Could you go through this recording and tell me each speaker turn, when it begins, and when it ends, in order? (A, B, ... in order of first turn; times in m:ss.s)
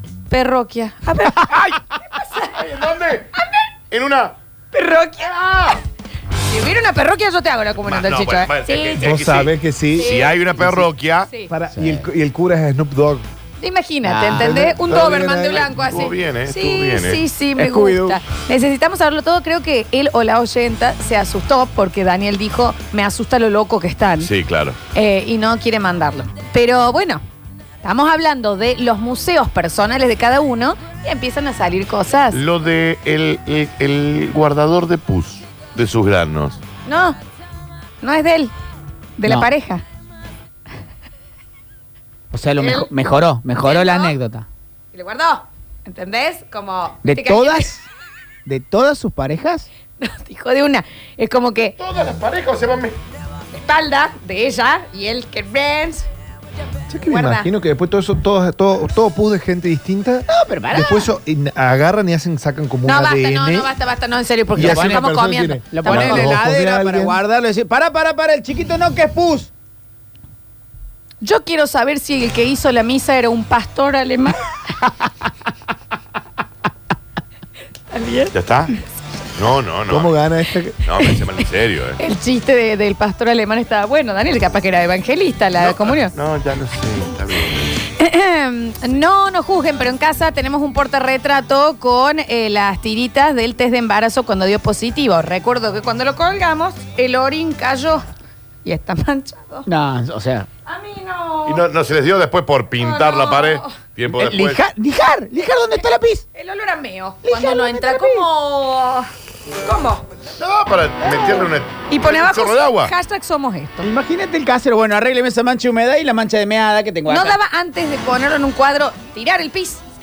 0:00.3-0:02.6 A
0:02.5-0:03.3 B
0:03.4-0:03.6 A
0:03.9-0:04.3 B
0:04.7-0:05.8 A
0:06.5-0:09.1 A
0:07.8-0:11.3 B
0:09.0-0:10.9 C
0:10.0-0:10.4 A
0:11.5-0:13.2 C
0:11.7-0:12.0 D
0:13.6-0:24.3 A
0:14.0-0:14.6 D
0:14.3-0:15.7 C
0:15.6-0:17.2 B
0:17.6-0:18.2 D
0:24.2-0:24.8 B
0:24.9-0:27.2 A
0:27.8-0:32.4 A
0:32.3-0:36.6 B
0:36.8-0:37.2 A
0:38.0-0:38.5 A
0:39.2-0:39.8 A
0:42.3-0:44.4 D
0:42.6-0:42.9 A
0:43.6-0:44.1 A
0:44.9-0:47.7 A
0:47.0-0:47.8 D
0:48.4-0:49.7 D
0:50.0-0:51.7 A
0:51.8-0:53.0 B
0:53.5-0:56.0 A
0:56.9-1:03.7 C
0:57.0-0:57.5 A
1:00.3-1:01.1 D
1:02.8-1:06.4 A
1:04.5-1:07.2 C
1:04.6-1:05.0 D
1:05.7-1:09.5 D
1:11.2-1:14.4 A
1:17.9-1:18.3 A
1:18.3-1:18.8 B
1:19.3-1:20.1 B
1:19.9-1:20.8 C
1:20.8-1:22.0 B
1:22.0-1:26.1 A
1:25.6-1:27.7 B
1:28.0-1:38.0 A
1:38.6-1:39.7 A
1:39.6-1:40.5 D
1:40.7-1:41.6 A
1:41.4-1:44.6 B
1:42.8-1:43.8 A
1:44.1-1:46.2 D
1:46.3-1:49.1 A
1:47.2-1:48.2 D
1:49.6-1:50.0 A
1:50.4-1:52.9 B
1:51.9-1:53.9 A
1:53.8-1:57.4 D
1:57.1-1:59.8 A